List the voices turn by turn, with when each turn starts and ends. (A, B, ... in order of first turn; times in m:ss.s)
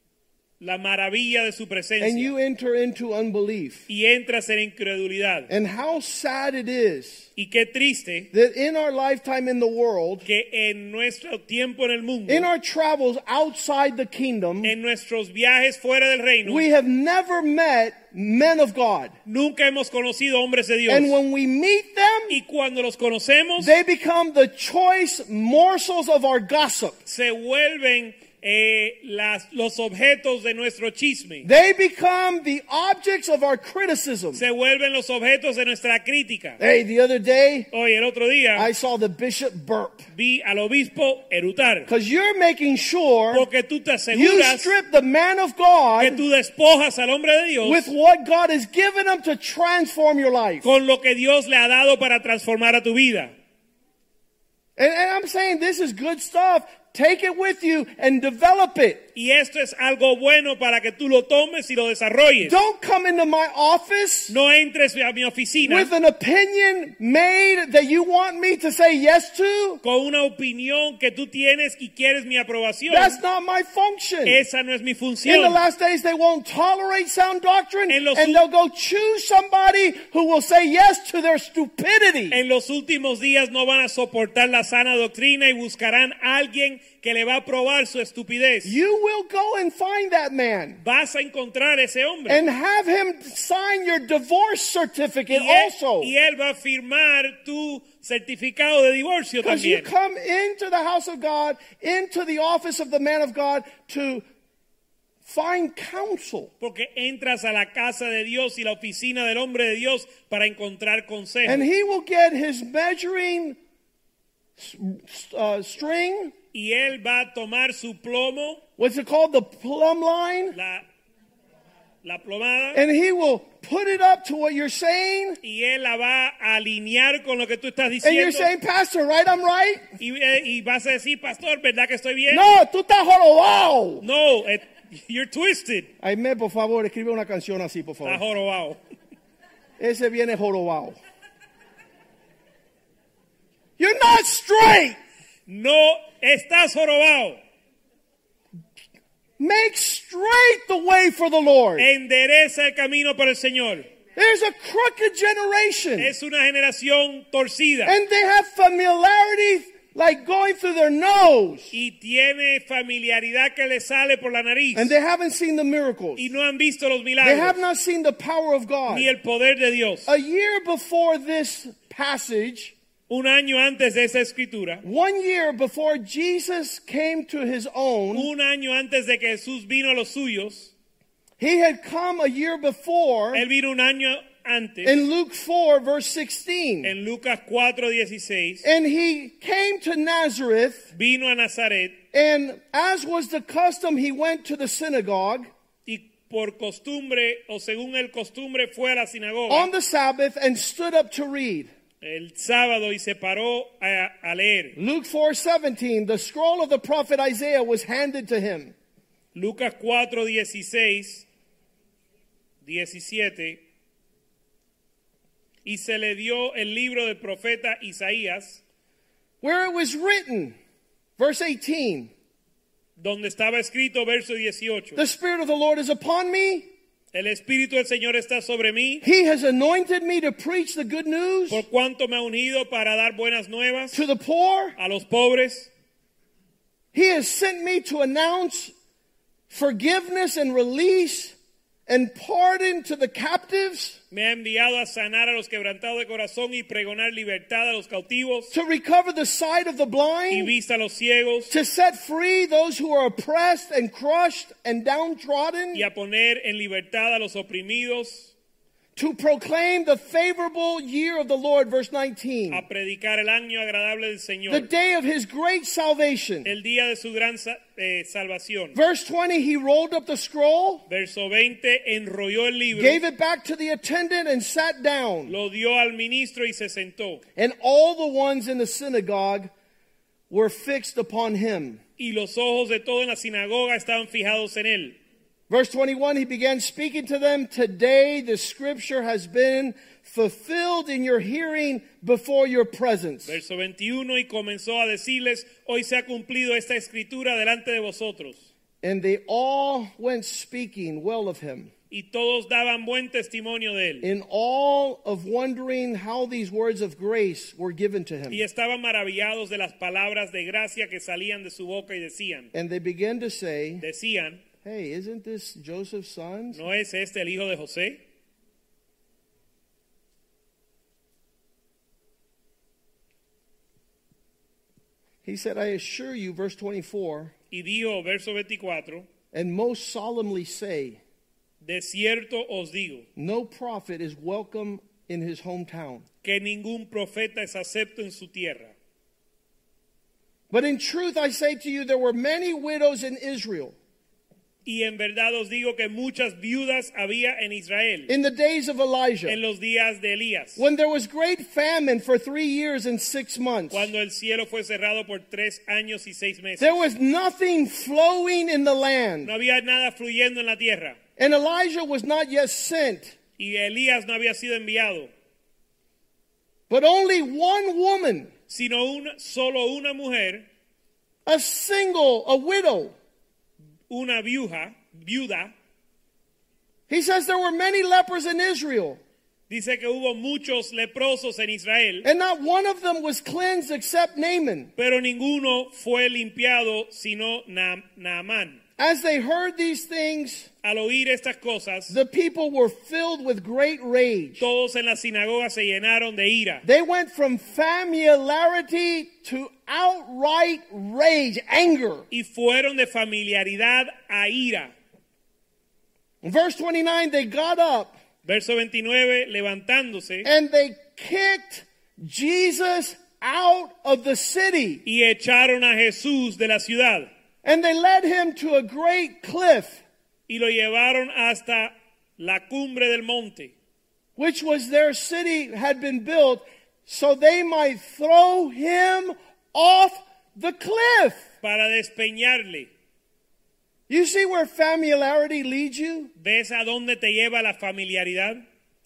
0:00.6-0:02.3 A
0:02.0-0:03.9 B
0:03.9-0:05.5 A
0:05.5-0:07.3 B
0:07.4-0:08.3 A
0:08.3-0:10.2 B
0:10.2-0:12.5 A
0:12.3-0:14.7 B
0:14.6-0:16.6 A
0:16.4-0:19.1 B
0:19.2-0:21.1 A
0:20.9-0:22.4 B
0:22.3-0:23.8 A
0:23.6-0:27.0 B
0:27.0-0:31.5 A
0:31.4-0:34.4 B
0:34.3-0:36.6 A
0:36.6-0:37.7 B
0:37.7-0:38.7 A
0:38.6-0:40.1 B
0:40.1-0:41.9 A
0:41.9-0:43.4 B
0:43.3-0:44.8 A
0:44.1-0:46.2 B
0:46.0-0:47.9 A
0:47.6-0:50.6 B
0:50.6-0:53.3 A
0:54.8-0:59.0 B
0:59.1-1:02.6 A
1:02.4-1:04.3 B
1:04.3-1:05.9 A
1:05.6-1:09.8 B
1:09.8-1:13.2 A
1:12.9-1:14.4 B
1:14.2-1:15.6 A
1:15.2-1:22.4 B
1:17.9-1:18.4 A
1:22.3-1:28.8 A
1:28.6-1:30.8 B
1:30.8-1:32.4 A
1:32.3-1:36.1 B
1:35.3-1:39.9 A
1:39.4-1:44.2 B
1:45.2-1:46.5 B
1:46.6-1:51.7 A
1:51.4-1:53.6 B
1:54.6-1:56.3 B
1:56.5-1:58.6 A
1:58.8-2:00.6 B
2:00.5-2:00.8 A
2:02.0-2:02.8 A
2:02.7-2:05.4 B
2:05.4-2:08.5 A
2:08.0-2:09.8 B
2:10.0-2:12.5 A
2:12.3-2:14.0 B
2:14.0-2:15.9 A
2:16.0-2:18.2 B
2:18.0-2:18.8 A
2:19.8-2:21.0 B
2:23.8-2:25.0 B
2:25.5-2:27.4 A
2:29.4-2:31.9 B
2:31.8-2:33.9 A
2:34.2-2:36.1 B
2:36.0-2:38.0 A
2:37.8-2:41.7 B
2:41.7-2:44.9 A
2:44.7-2:46.3 B
2:46.2-2:47.6 A
2:47.2-2:49.1 B
2:48.9-2:50.1 A
2:50.1-2:52.7 B
2:53.1-2:54.8 A
2:54.8-2:58.3 B
2:58.1-3:00.7 A
3:01.4-3:03.4 B
3:03.3-3:05.0 A
3:04.8-3:06.9 B
3:06.8-3:08.6 A
3:08.6-3:10.9 B
3:10.9-3:12.0 A
3:12.1-3:15.5 B
3:15.9-3:19.7 A
3:19.5-3:21.7 B
3:22.0-3:24.8 A
3:24.8-3:28.7 B
3:29.3-3:31.2 A
3:32.6-3:33.6 A
3:35.6-3:38.6 A
3:39.4-3:40.6 B
3:41.2-3:42.1 B
3:43.0-3:45.0 A
3:45.0-3:46.7 B
3:47.1-3:49.0 A
3:49.0-3:51.6 B
3:51.5-3:54.0 A
3:53.9-3:54.8 B
3:54.8-3:55.7 A
3:56.9-3:58.7 B
3:59.5-4:01.4 B
4:01.9-4:04.0 B
4:04.1-4:08.5 A
4:08.5-4:10.5 B
4:10.3-4:11.5 A
4:11.5-4:15.9 B
4:15.7-4:18.3 A
4:19.0-4:22.6 B
4:22.5-4:24.7 A
4:24.5-4:26.5 B
4:26.4-4:28.8 A
4:28.7-4:30.8 B
4:30.9-4:33.0 A
4:32.7-4:35.3 B
4:35.3-4:37.2 A
4:37.4-4:39.5 B
4:40.3-4:41.8 B
4:42.0-4:45.0 A
4:45.5-4:53.4 B
4:53.2-4:58.5 A
4:58.8-5:01.7 B
5:01.9-5:04.0 A
5:04.0-5:08.4 B
5:08.3-5:12.5 A
5:12.5-5:13.8 B
5:13.8-5:14.4 A
5:14.6-5:16.6 B
5:16.5-5:18.0 A
5:25.2-5:27.3 B
5:27.5-5:29.0 A
5:29.3-5:31.0 B
5:31.6-5:33.0 A
5:33.2-5:36.0 B
5:36.2-5:38.7 A
5:40.5-5:43.7 B
5:44.6-5:48.1 A
5:48.1-5:49.4 B
5:49.2-5:50.6 A
5:50.6-5:53.9 B
5:53.7-5:56.8 A
5:56.6-5:59.3 B
5:59.2-6:01.0 A
6:01.2-6:03.1 B
6:03.4-6:05.1 A
6:06.7-6:08.3 B
6:08.5-6:10.4 A
6:11.2-6:12.9 B
6:13.9-6:15.5 A
6:16.9-6:19.0 B
6:19.5-6:22.0 A
6:22.0-6:24.7 B
6:24.8-6:28.6 A
6:28.8-6:30.5 B
6:30.6-6:32.0 A
6:31.9-6:34.5 B
6:34.4-6:36.6 A
6:36.6-6:42.0 B
6:42.1-6:44.7 A
6:46.2-6:48.0 B
6:48.2-6:50.3 A
6:50.2-6:54.8 B
6:54.8-6:57.1 A
6:57.4-6:59.8 B
7:00.3-7:03.5 A
7:04.2-7:11.2 B
7:11.4-7:12.7 A
7:13.9-7:16.1 B
7:16.2-7:18.4 A